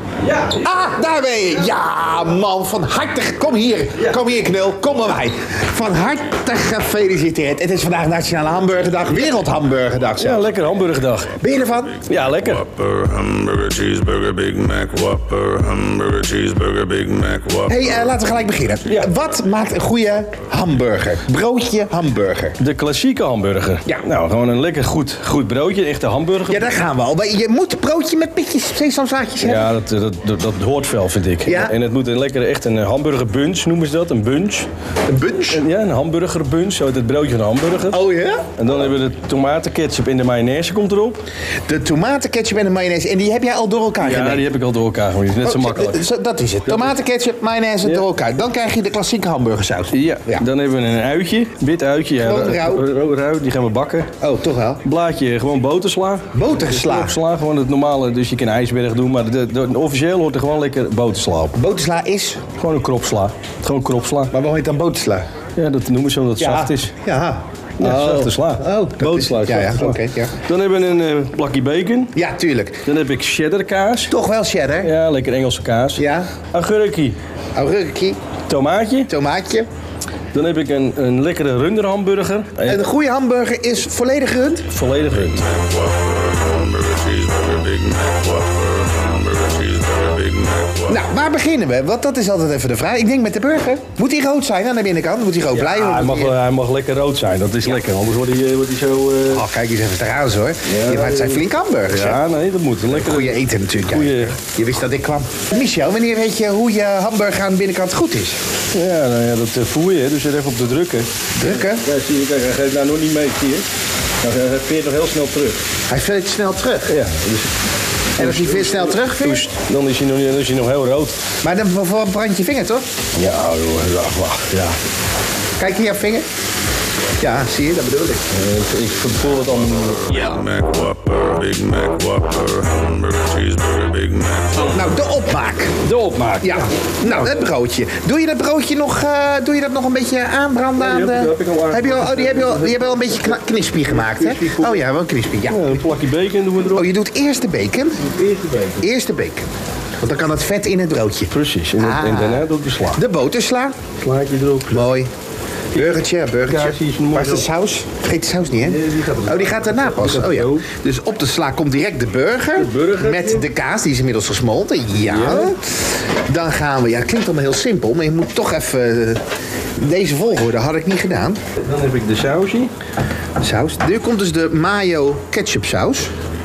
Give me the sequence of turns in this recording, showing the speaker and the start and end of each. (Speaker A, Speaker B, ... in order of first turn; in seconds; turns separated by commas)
Speaker A: 0.2-0.6, Speaker B: 0.5-10.5, Speaker A: 10.2-11.4, Speaker B: 11.4-12.1, Speaker A: 12.1-12.7, Speaker C: 12.7-17.7, Speaker B: 17.7-22.6, Speaker A: 18.9-19.1, Speaker A: 22.6-26.7, Speaker B: 26.5-29.7, Speaker A: 29.4-34.7, Speaker B: 31.4-31.8, Speaker B: 35.1-35.6, Speaker A: 35.5-38.0, Speaker B: 37.9-38.5, Speaker A: 38.6-41.2, Speaker B: 41.7-44.4, Speaker A: 44.0-46.0, Speaker B: 45.4-50.5, Speaker A: 46.7-47.0, Speaker A: 49.9-54.1, Speaker B: 52.2-52.9, Speaker B: 54.2-54.8, Speaker A: 54.8-61.6, Speaker B: 56.3-57.2, Speaker B: 61.5-62.4, Speaker A: 62.6-64.3, Speaker B: 64.3-65.2, Speaker A: 65.6-66.9, Speaker B: 66.4-70.3, Speaker A: 67.8-72.1, Speaker B: 72.2-72.8, Speaker A: 72.8-74.1, Speaker B: 74.1-74.9, Speaker A: 74.8-77.2, Speaker B: 76.0-76.3, Speaker B: 77.5-78.2, Speaker A: 78.5-79.1, Speaker B: 79.1-79.7, Speaker A: 80.3-82.8, Speaker B: 82.7-84.6, Speaker A: 84.7-85.5, Speaker C: 85.5-90.9, Speaker B: 90.9-96.3, Speaker A: 95.5-99.4, Speaker B: 99.3-102.2, Speaker A: 100.7-104.4, Speaker B: 102.9-108.4, Speaker A: 108.7-113.6, Speaker B: 111.3-111.8, Speaker A: 114.2-115.6, Speaker B: 115.9-117.0, Speaker A: 116.9-117.5, Speaker A: 118.1-121.2, Speaker B: 118.2-119.5, Speaker B: 121.4-122.8, Speaker A: 123.1-124.8, Speaker B: 125.6-126.2, Speaker B: 127.2-128.2, Speaker A: 128.3-130.4, Speaker C: 130.3-134.6, Speaker B: 134.7-135.8, Speaker A: 135.8-137.3, Speaker B: 136.4-145.6, Speaker A: 140.8-144.8, Speaker A: 145.5-146.9, Speaker B: 146.7-148.1, Speaker A: 148.1-148.8, Speaker B: 148.8-149.4, Speaker B: 150.0-153.7, Speaker A: 151.3-153.0, Speaker A: 154.0-154.9, Speaker B: 154.7-155.1, Speaker A: 155.7-157.5, Speaker B: 155.7-169.2, Speaker A: 158.5-160.7, Speaker A: 162.6-163.5, Speaker A: 164.9-165.5, Speaker B: 169.8-171.4, Speaker A: 171.6-172.7, Speaker B: 173.4-176.1